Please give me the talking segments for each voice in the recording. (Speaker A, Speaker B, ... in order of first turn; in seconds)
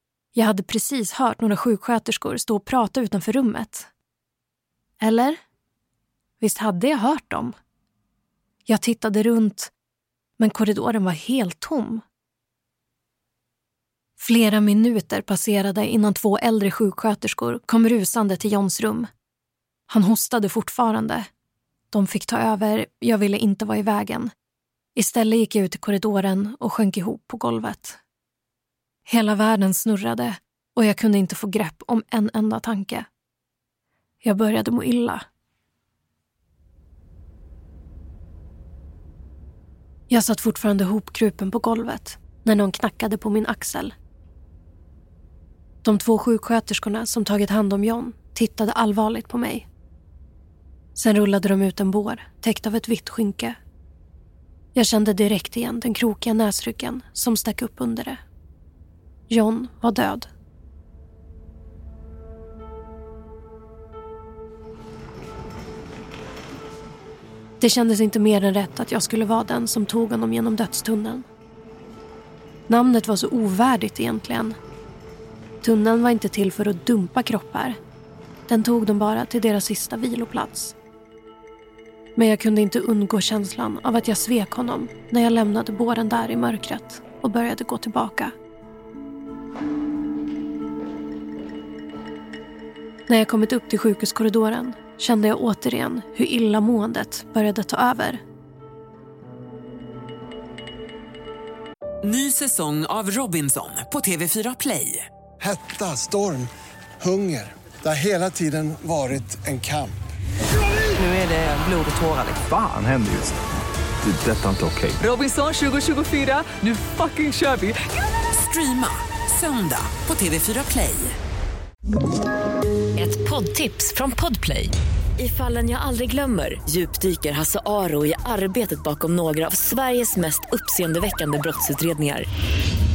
Speaker A: 0.3-3.9, 5.0-5.4, 6.4-7.6, 8.7-9.7, 10.4-12.0, 14.2-19.1, 19.9-21.3, 21.9-24.3, 24.9-28.0, 29.1-33.1, 34.2-35.2, 40.1-43.9, 45.8-49.7, 51.0-53.6, 54.7-58.2, 59.3-60.3, 67.6-71.2, 72.7-74.6, 75.6-77.8, 78.5-80.8, 82.2-88.3, 93.1-98.2
Speaker B: 102.0-105.1, 110.9-112.5, 115.0-121.2
Speaker C: 105.4-110.1
Speaker D: 112.4-113.4, 114.0-115.0
Speaker E: 123.0-132.3